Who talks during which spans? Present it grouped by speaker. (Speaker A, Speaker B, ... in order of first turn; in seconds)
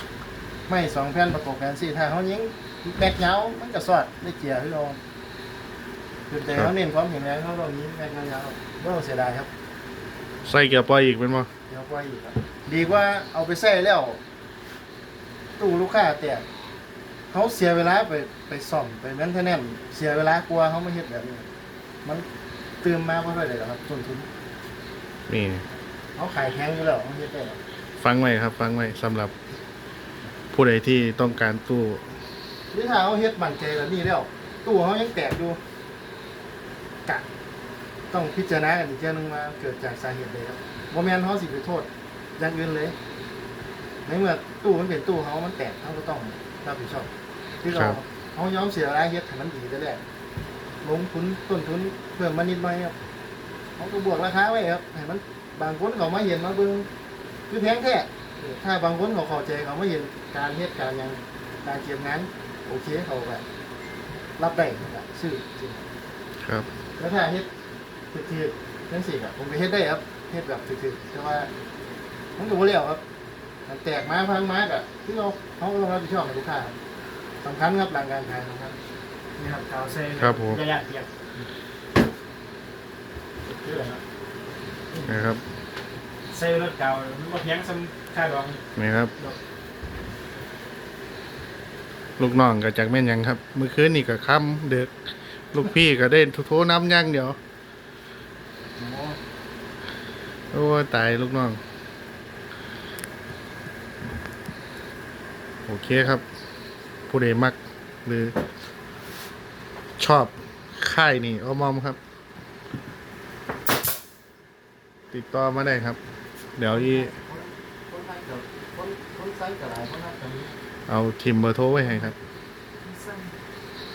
Speaker A: 0.7-5.0, 6.3-9.5, 11.7-14.2, 15.6-16.4, 17.3-21.5, 22.8-24.3, 26.1-27.6, 32.7-35.6, 38.1-42.9, 44.0-47.1, 47.6-50.0, 50.8-52.9, 53.8-56.9, 57.5-63.4, 64.4-65.8, 67.0-67.5, 68.1-71.5, 72.4-73.0, 73.7-76.8, 77.4-78.8, 83.5-84.0, 98.8-99.2, 116.7-120.5, 122.8-123.3
Speaker B: 10.4-11.5, 25.3-25.6, 28.0-29.3, 30.5-32.0, 47.7-48.0, 66.4-66.7, 80.2-80.6, 85.0-85.4, 88.8-89.1, 92.2-97.4, 100.5-101.6, 105.7-106.2, 107.1-108.4, 110.0-112.0, 115.1-116.0, 116.6-117.1, 120.9-122.1
Speaker C: 79.4-81.1, 86.3-88.6